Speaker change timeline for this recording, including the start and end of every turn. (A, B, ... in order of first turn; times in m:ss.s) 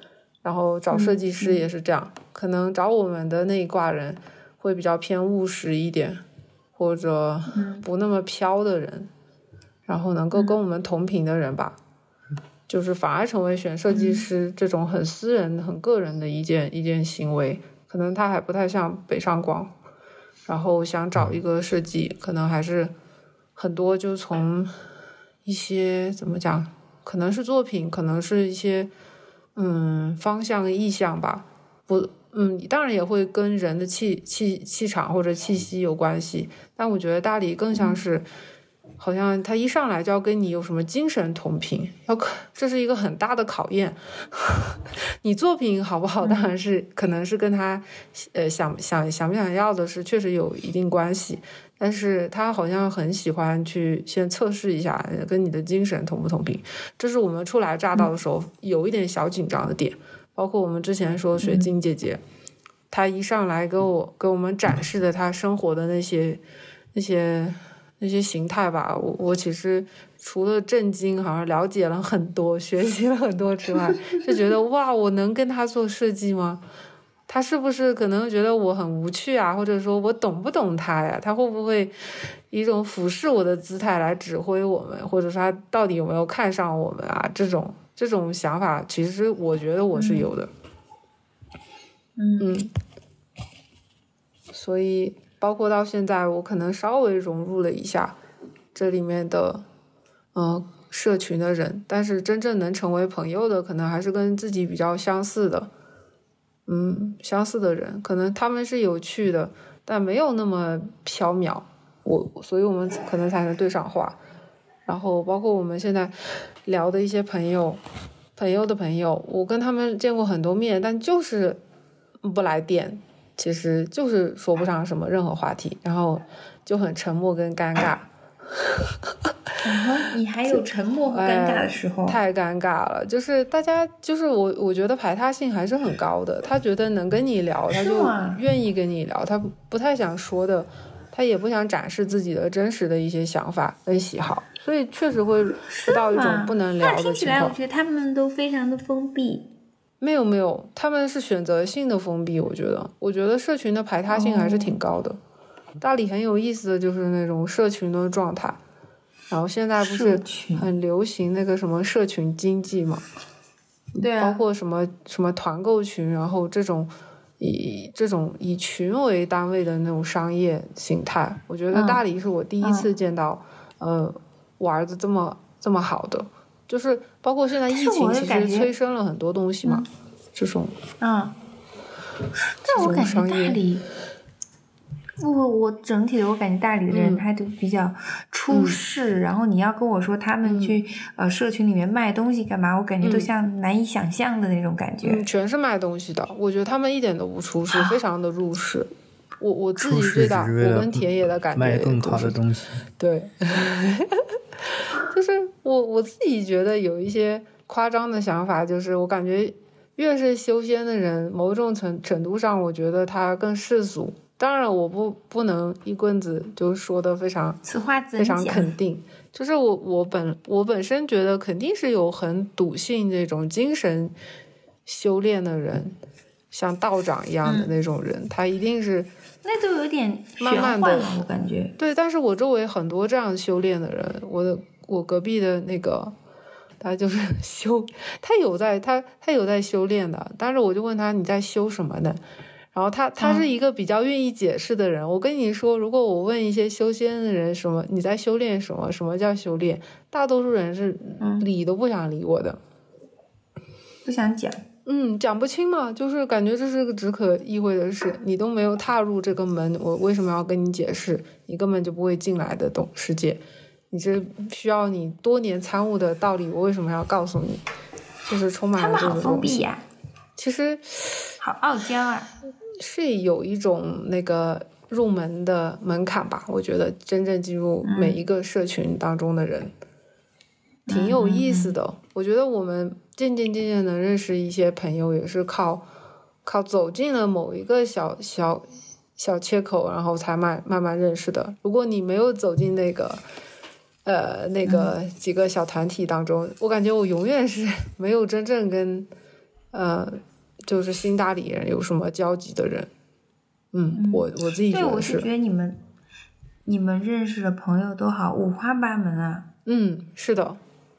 0:00.4-0:06.2 A
0:00.9-0:01.6 B
0:06.8-0:09.1 A
0:07.5-0:07.8 B
0:09.8-0:11.8 A
0:12.7-0:19.7 A
0:13.9-0:14.3 B
0:20.4-0:22.9 A
0:23.6-0:24.7 A
0:25.4-0:28.9 A
0:29.6-0:38.2 A
0:37.7-0:38.0 B
0:39.0-1:02.2 A
0:46.2-0:46.5 B
1:01.4-1:01.7 B
1:02.9-1:06.4 A
1:06.9-1:16.6 A
1:17.3-1:21.9 A
1:22.5-1:30.5 A
1:29.9-1:30.3 B
1:32.2-1:32.5 B
1:32.4-1:32.7 A
1:34.5-1:38.2 A
1:38.7-1:39.6 A
1:40.3-1:45.7 A
1:46.7-1:54.2 A
1:54.8-1:56.1 A
1:56.6-1:57.8 A
1:58.4-2:01.6 A
2:02.2-2:08.1 A
2:09.6-2:12.2 B
2:11.1-2:27.6 A
2:17.7-2:18.4 B
2:25.7-2:29.5 B
2:30.0-2:35.2 A
2:34.1-2:34.8 B
2:35.8-2:38.6 A
2:39.3-2:43.0 A
2:39.8-2:40.7 B
2:44.0-2:44.4 B
2:44.0-3:00.8 A
2:51.7-2:52.0 B
2:52.6-2:52.9 B
2:57.7-2:58.7 B
3:01.0-3:01.4 B
3:02.6-3:03.8 B
3:02.6-3:03.6 A
3:05.2-3:15.2 B
3:06.9-3:07.2 A
3:08.5-3:08.8 A
3:10.4-3:10.8 A
3:13.0-3:13.3 A
3:15.0-3:22.4 A
3:17.7-3:18.0 B
3:19.8-3:22.8 C
3:23.0-3:24.3 A
3:25.0-3:37.6 A
3:37.6-3:38.7 B
3:38.2-3:44.1 A
3:44.8-3:45.9 A
3:46.5-3:49.1 A
3:47.4-3:47.7 B
3:49.4-3:51.7 B
3:50.4-3:51.2 A
3:51.8-3:56.1 A
3:56.8-4:02.2 A
4:02.7-4:12.6 A
4:03.2-4:03.4 B
4:11.2-4:11.5 B
4:14.0-4:14.6 B
4:14.8-4:23.4 A
4:23.9-4:27.6 A
4:28.2-4:29.6 A
4:28.8-4:29.8 B
4:30.4-4:31.3 A
4:31.4-4:32.3 B
4:32.8-4:39.7 A
4:37.8-4:38.2 B
4:40.9-4:45.8 A
4:40.9-4:41.8 B
4:46.4-4:48.6 A
4:49.2-4:53.2 A
4:54.0-4:59.1 A
4:54.6-4:54.9 B
4:59.7-5:02.9 A
5:03.7-5:05.3 A
5:03.9-5:05.8 B
5:06.6-5:09.4 B
5:09.6-5:10.6 A